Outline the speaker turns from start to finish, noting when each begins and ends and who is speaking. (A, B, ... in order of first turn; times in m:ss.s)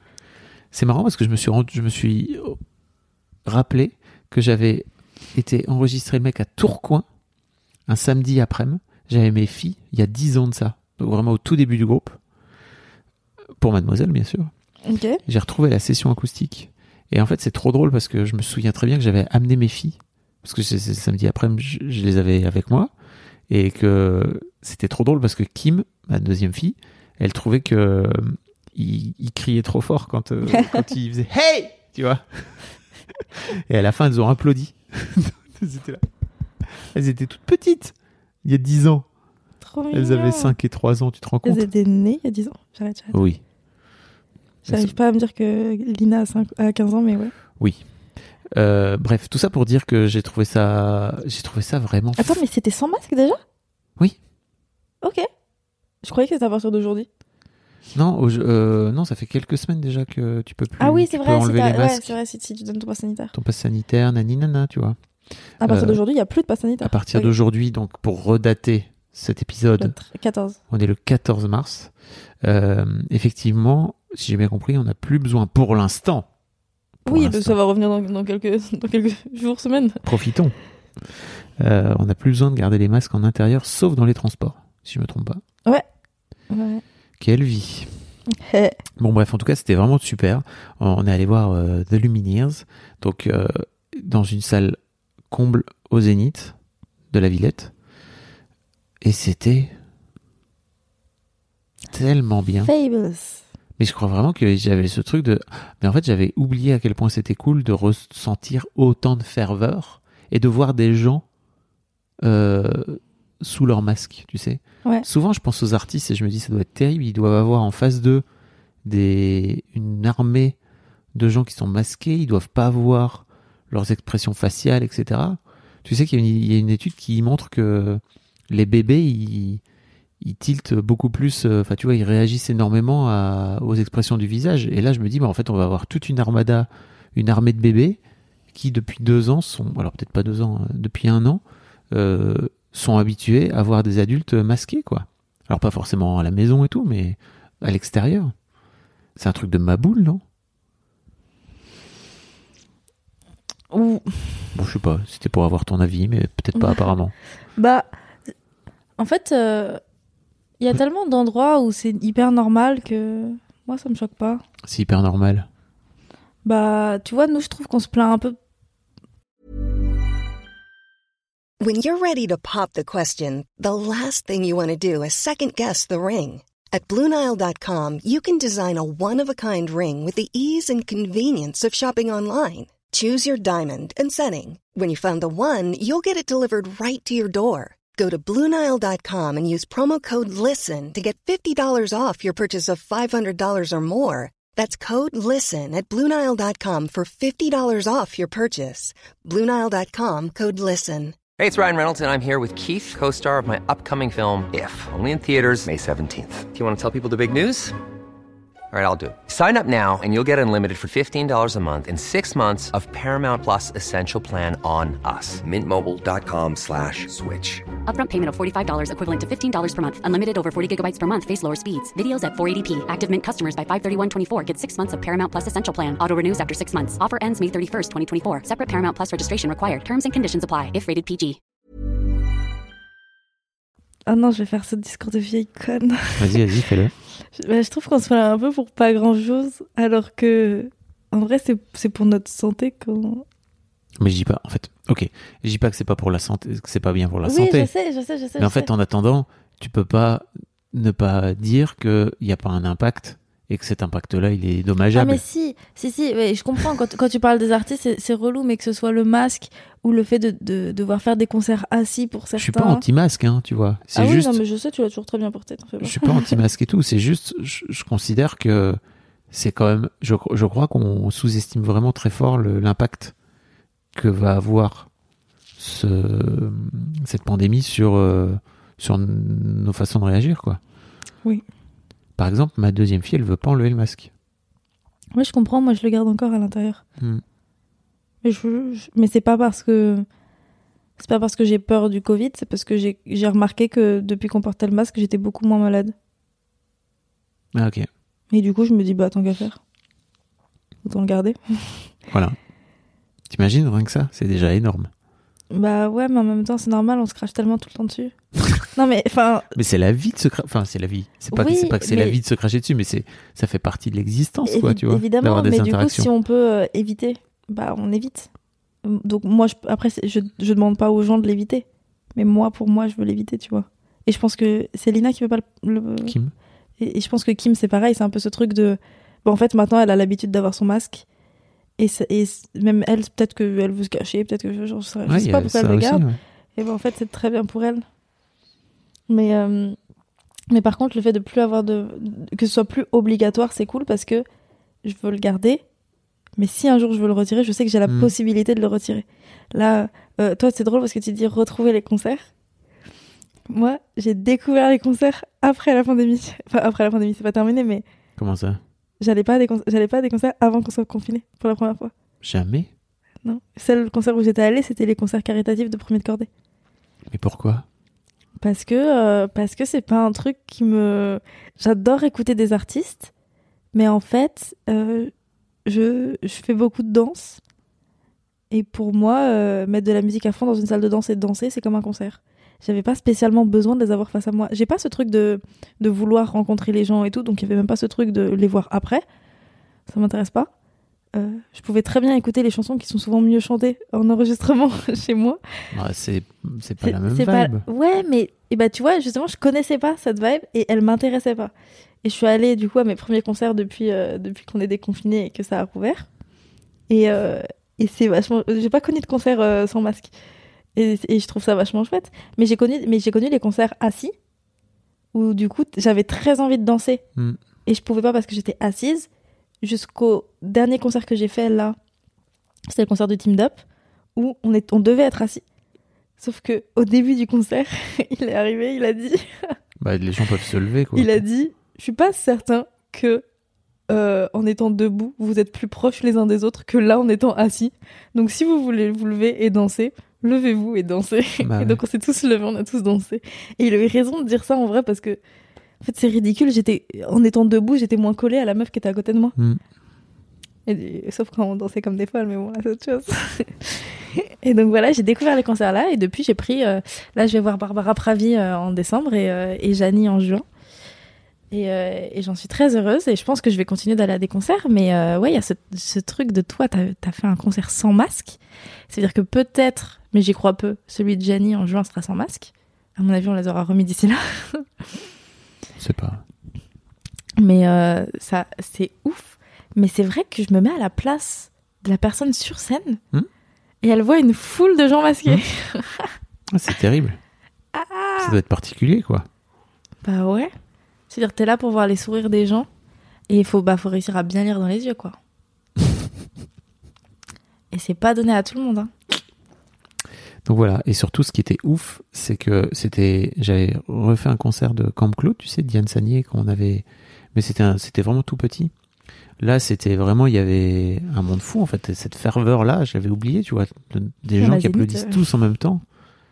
0:00.7-0:02.6 A
0:03.4-0:07.0 A
0:07.9-0:12.2 A
0:13.6-0:14.5 A
0:14.9-0:15.2 B
0:15.2-0:22.9 A
0:23.5-0:32.4 A
0:33.5-0:36.0 A
0:36.9-0:37.9 A
0:38.4-0:39.0 A
0:39.6-0:40.6 B
0:39.9-0:41.7 A
0:41.4-0:43.2 B
0:43.1-0:43.4 A
0:44.6-0:47.3 B
0:44.7-0:44.9 A
0:48.5-0:52.4 A
0:52.2-0:53.4 B
0:56.0-0:57.1 B
0:57.9-1:02.2 A
1:00.8-1:03.3 B
1:03.3-1:05.0 A
1:05.6-1:07.3 B
1:05.6-1:06.0 A
1:06.8-1:09.9 A
1:09.8-1:10.6 B
1:10.7-1:11.9 A
1:12.4-1:16.3 A
1:17.0-1:20.0 B
1:17.1-1:17.6 A
1:20.0-1:20.5 A
1:21.6-1:25.4 A
1:26.5-1:26.8 B
1:27.2-1:27.9 A
1:28.4-1:28.8 B
1:29.0-1:34.8 A
1:35.3-1:36.5 A
1:37.1-1:37.7 A
1:39.0-1:39.7 A
1:41.9-1:42.7 A
1:42.6-1:43.4 B
1:43.8-1:51.2 A
1:52.2-1:58.2 A
1:58.8-2:00.6 A
2:01.2-2:09.6 A
2:10.2-2:18.0 A
2:18.5-2:28.3 A
2:29.2-2:30.2 A
2:33.7-2:34.5 B
2:34.5-2:37.1 A
2:36.5-2:36.9 B
2:37.6-2:37.9 B
2:39.0-2:39.8 B
2:40.6-2:44.4 B
2:44.6-2:45.5 A
2:46.4-2:48.4 B
2:51.6-3:21.2 C
3:21.4-3:27.7 D
3:28.7-3:37.7 D
3:37.8-3:51.4 E
3:54.1-3:56.4 B
3:56.2-3:56.9 A
3:57.3-4:03.2 B
4:04.0-4:07.7 A
4:07.2-4:08.7 B
4:08.4-4:15.2 A
4:14.9-4:22.8 B
4:22.4-4:24.4 A
4:23.9-4:26.4 B
4:25.8-4:28.8 A
4:29.3-4:33.1 A
4:33.9-4:34.9 A
4:35.6-4:40.6 A
4:42.2-4:44.1 A
4:45.1-4:46.8 B
4:48.2-4:50.0 B
4:51.0-4:55.9 B
4:57.5-4:57.9 A
4:58.3-4:59.6 B
5:00.8-5:01.8 B
5:02.1-5:02.4 A
5:03.3-5:04.9 A
5:05.5-5:08.1 B
5:08.7-5:09.5 B
5:09.5-5:16.1 A
5:11.3-5:12.2 B
5:14.4-5:18.3 B
5:18.8-5:26.1 B
5:26.0-5:26.3 A
5:26.8-5:31.0 B
5:31.8-5:36.0 B
5:35.1-5:36.2 A
5:36.6-5:37.8 B
5:39.1-5:39.8 B
5:40.5-5:44.2 B
5:44.8-5:45.6 B
5:46.4-5:52.2 B
5:47.9-5:48.1 A
5:53.5-5:57.8 B
5:58.2-5:58.6 A
5:59.0-6:01.9 B
6:02.2-6:02.7 A
6:03.2-6:06.3 B
6:07.1-6:07.6 A
6:08.4-6:13.1 B
6:13.7-6:15.1 B
6:15.6-6:17.4 B
6:18.5-6:29.0 B
6:29.9-6:30.5 B
6:31.1-6:35.4 B
6:35.7-6:37.6 A
6:36.8-6:46.1 B
6:46.9-6:50.1 B
6:50.8-6:54.1 B
6:55.1-6:57.0 B
6:57.6-6:59.1 B
6:59.6-7:01.8 B
7:02.7-7:03.6 B
7:04.2-7:05.4 B
7:06.2-7:09.5 B
7:09.8-7:11.2 A
7:11.0-7:13.2 B
7:13.9-7:25.2 B
7:21.4-7:21.8 A
7:25.8-7:29.4 B
7:30.6-7:40.4 B
7:41.5-7:48.4 B
7:48.9-7:54.7 B
7:55.8-7:56.2 A
7:57.4-8:03.0 B
8:03.8-8:06.1 B
8:06.5-8:07.2 A
8:07.7-8:08.4 B
8:08.2-8:09.2 A
8:10.0-8:10.5 B
8:11.1-8:12.7 B
8:13.3-8:15.2 B
8:17.7-8:18.9 B
8:20.5-8:28.7 A
8:29.4-8:35.8 A
8:34.4-8:35.2 B